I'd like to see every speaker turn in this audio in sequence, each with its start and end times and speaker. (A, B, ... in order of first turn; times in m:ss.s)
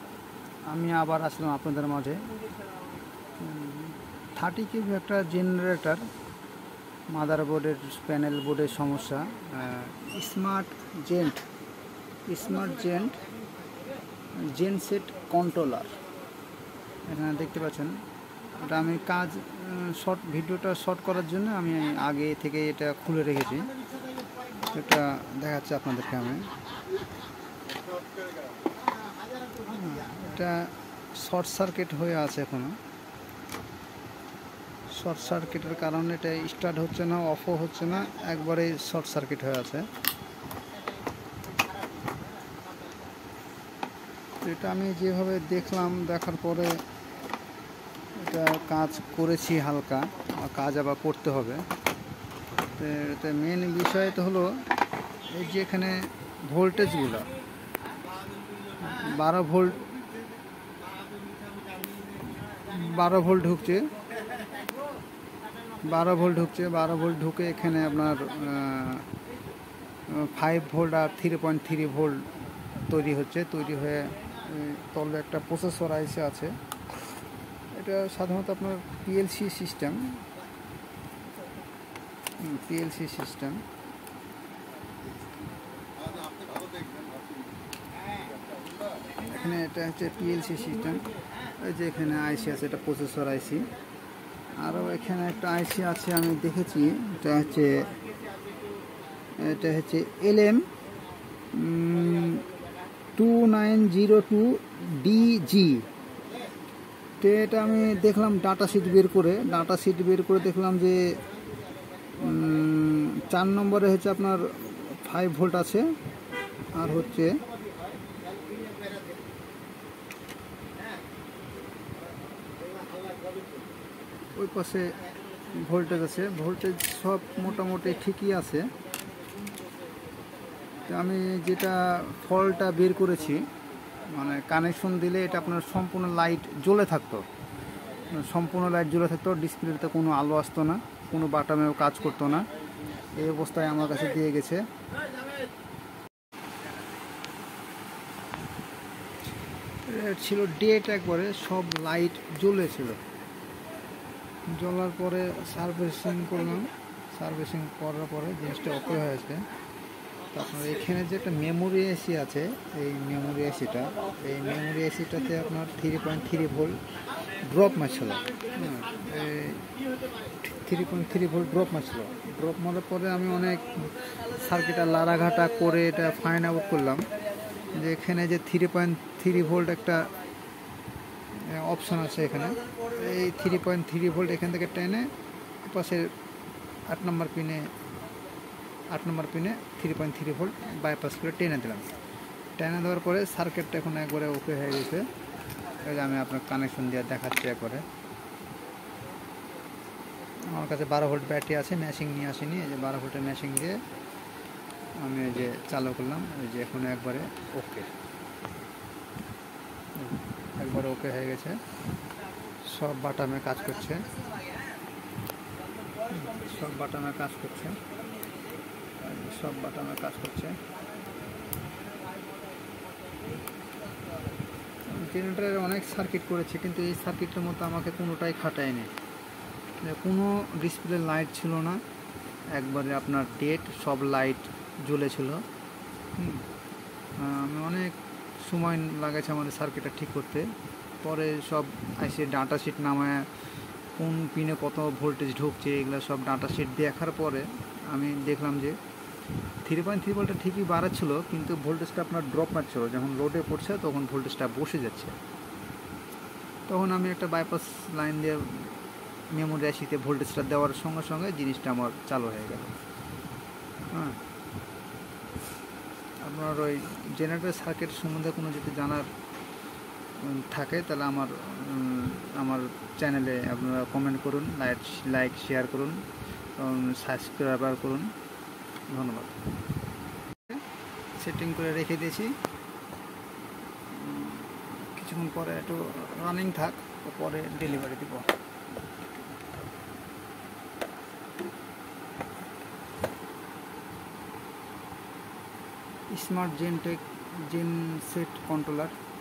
0:00.7-0:02.3 A
0:03.4-0:06.0 A
0:07.1-0:11.4 A
0:12.3-0:13.2 A
0:14.4-0:16.0 A
0:17.1-0:18.0 A
0:18.6-0:23.7 A
0:24.7-0:26.5 A
0:29.6-0:32.8 A
0:34.9-0:39.8 A
0:44.4-0:46.8 A
0:48.1-0:51.6 A
0:52.7-0:54.6 A
0:55.2-0:57.3 A
0:58.8-0:59.8 A
1:02.6-1:03.9 A
1:05.8-1:09.1 A
1:10.1-1:12.3 A
1:12.9-1:16.6 A
1:17.7-1:20.2 A
1:22.4-1:23.6 A
1:29.2-1:31.1 A
1:31.6-1:33.7 A
1:34.6-1:37.9 A
1:39.4-1:40.7 A
1:41.5-1:42.4 A
1:43.2-1:45.8 A
1:47.2-1:51.1 A
1:52.2-1:55.8 A
1:56.7-1:57.4 A
2:04.4-2:04.9 A
2:05.5-2:08.7 A
2:10.9-2:13.5 A
2:14.1-2:17.2 A
2:18.1-2:22.5 A
2:23.1-2:24.6 A
2:29.9-2:33.0 A
2:34.5-2:39.5 A
2:40.3-2:46.8 A
2:47.4-2:49.7 A
2:50.3-2:57.1 A
2:57.7-3:00.1 A
3:01.5-3:05.1 A
3:05.6-3:06.1 A
3:06.9-3:07.7 A
3:08.9-3:11.9 A
3:12.6-3:15.1 A
3:15.8-3:17.8 A
3:20.5-3:23.8 A
3:25.0-3:27.9 A
3:29.9-3:31.6 A
3:32.6-3:34.1 A
3:36.0-3:37.8 A
3:39.0-3:40.6 A
3:44.9-3:48.9 A
3:49.8-3:51.8 A
3:52.5-3:55.4 A
3:56.2-3:56.4 A
3:57.2-4:00.5 A
4:01.0-4:03.3 A
4:04.0-4:08.8 A
4:09.6-4:15.2 A
4:16.7-4:18.7 A
4:19.3-4:22.7 A
4:23.9-4:24.2 A
4:26.2-4:29.1 A
4:30.2-4:36.0 A
4:36.6-4:38.1 A
4:38.9-4:39.4 A
4:41.2-4:42.3 A
4:43.9-4:48.3 A
4:56.1-4:59.0 A